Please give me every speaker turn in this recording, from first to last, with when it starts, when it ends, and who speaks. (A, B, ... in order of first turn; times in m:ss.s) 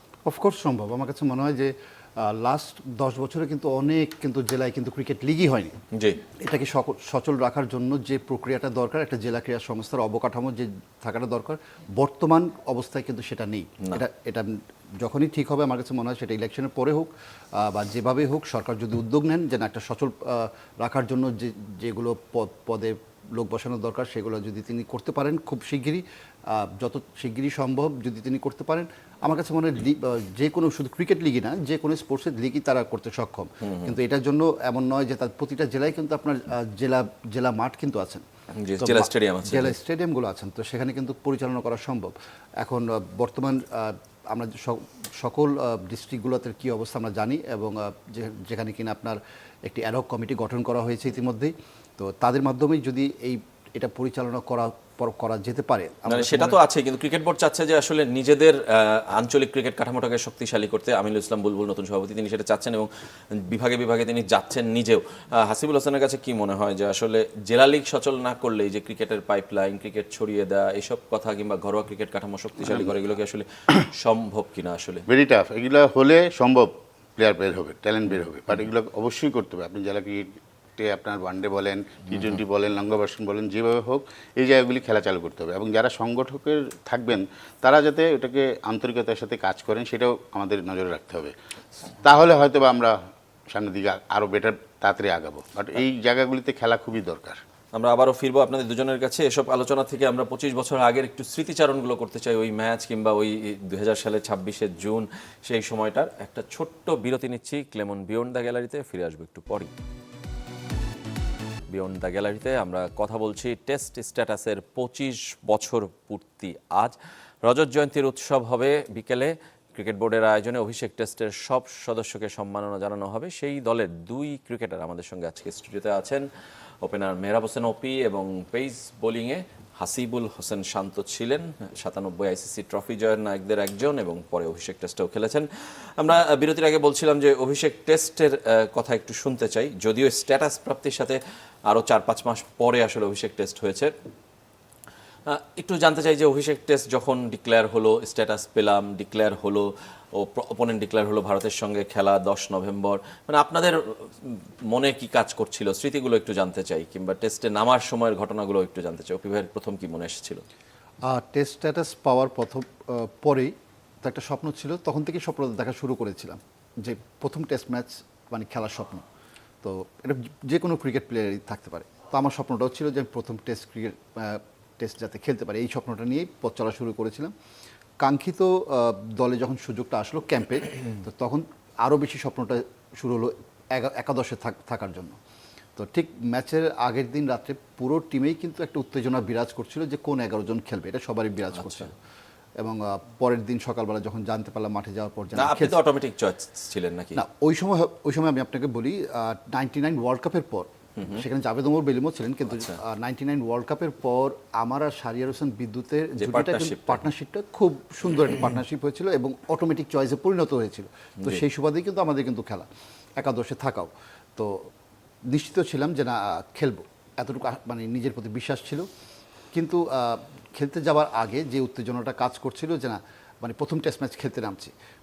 0:00.3-0:05.7 A
0:05.9-0:06.2 B
0:06.4-0:38.2 A
0:33.6-0:34.0 B
0:38.6-0:39.8 B
0:38.8-0:56.6 A
0:56.1-1:02.9 B
1:03.4-1:15.0 B
1:12.7-1:13.0 C
1:15.1-1:31.3 C
1:32.0-1:33.0 C
1:33.5-1:37.4 C
1:37.7-1:49.7 B
1:51.7-2:06.2 B
2:06.8-2:15.4 B
2:16.0-2:23.9 B
2:25.3-2:40.4 B
2:41.1-2:43.5 A
2:44.0-2:49.0 A
2:49.6-2:57.3 A
2:58.0-3:05.2 A
3:05.8-3:11.9 A
3:12.6-3:15.8 A
3:15.3-3:17.2 B
3:17.1-3:32.7 A
3:21.0-3:21.2 B
3:22.5-3:22.8 B
3:26.2-3:27.0 B
3:33.2-3:34.7 A
3:35.3-3:38.9 A
3:39.5-3:44.7 A